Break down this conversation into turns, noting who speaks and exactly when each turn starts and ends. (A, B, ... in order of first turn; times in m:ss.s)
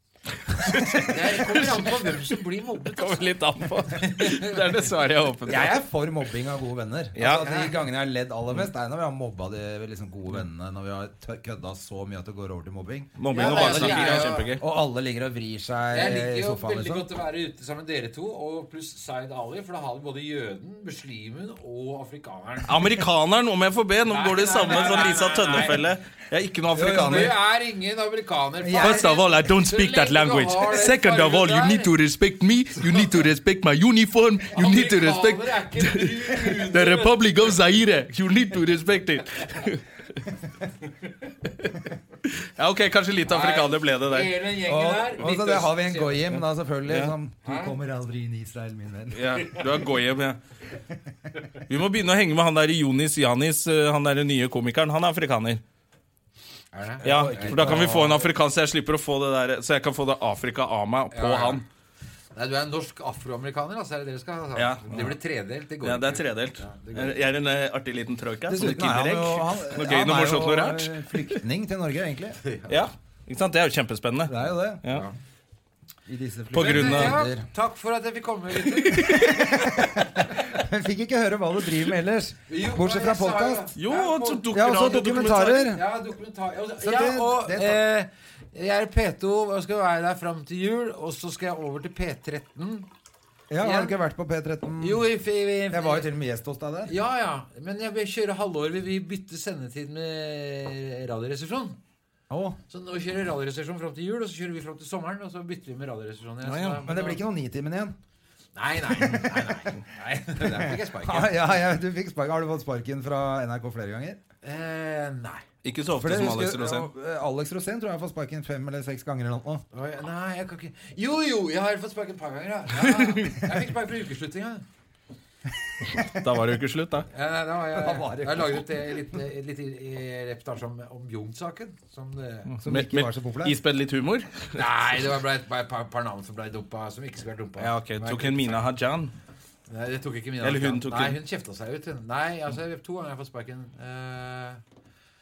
0:00.3-0:02.3 A
0:01.0-0:04.9 B
0:02.9-0:05.7 A
0:05.5-0:17.1 C
0:07.2-0:07.5 A
0:07.2-0:07.8 B
0:13.2-0:14.6 A
0:13.3-0:14.5 B
0:15.9-0:23.0 B
0:22.7-0:27.3 A
0:24.1-0:25.9 B
0:26.7-0:27.4 C
0:26.9-0:31.9 B
0:28.6-0:29.1 C
0:28.8-0:40.3 A
0:32.8-0:33.3 B
0:34.5-0:37.6 B
0:42.2-0:44.3 A
0:43.3-0:46.4 B
0:44.6-0:49.6 C
0:46.9-0:47.1 A
0:47.4-0:47.8 B
0:49.1-0:50.4 A
0:50.7-0:51.3 C
0:51.7-0:55.6 A
0:56.7-0:58.3 B
0:57.0-1:01.6 A
0:57.0-0:58.2 C
1:01.1-1:01.6 B
1:02.3-1:07.3 B
1:04.6-1:05.2 A
1:05.8-1:11.4 A
1:08.5-1:12.4 C
1:12.4-1:12.8 B
1:12.7-1:15.1 A
1:14.3-1:14.8 C
1:14.8-1:15.1 B
1:16.1-1:17.5 C
1:16.5-1:17.2 A
1:16.6-1:20.6 B
1:18.6-1:19.4 A
1:19.3-1:23.7 C
1:22.5-1:32.9 B
1:23.8-1:25.7 A
1:24.5-1:25.8 C
1:26.8-1:27.8 C
1:33.5-1:35.1 C
1:33.6-1:34.0 B
1:34.8-1:36.1 B
1:35.7-1:36.9 C
1:36.9-1:41.8 B
1:42.3-1:42.6 C
1:42.7-1:47.2 B
1:46.4-1:46.8 A
1:46.8-1:48.0 C
1:48.6-1:51.6 B
1:48.8-1:49.8 C
1:50.4-1:54.2 C
1:54.4-1:55.4 B
1:55.6-1:56.9 A
1:56.0-1:59.6 C
1:59.7-2:04.6 B
2:02.8-2:03.4 A
2:05.8-2:07.1 A
2:05.9-2:06.3 C
2:07.1-2:12.5 B
2:07.7-2:08.6 C
2:12.5-2:14.7 A
2:12.6-2:13.6 C
2:14.6-2:18.7 B
2:17.6-2:19.1 A
2:19.7-2:24.6 B
2:20.4-2:21.2 A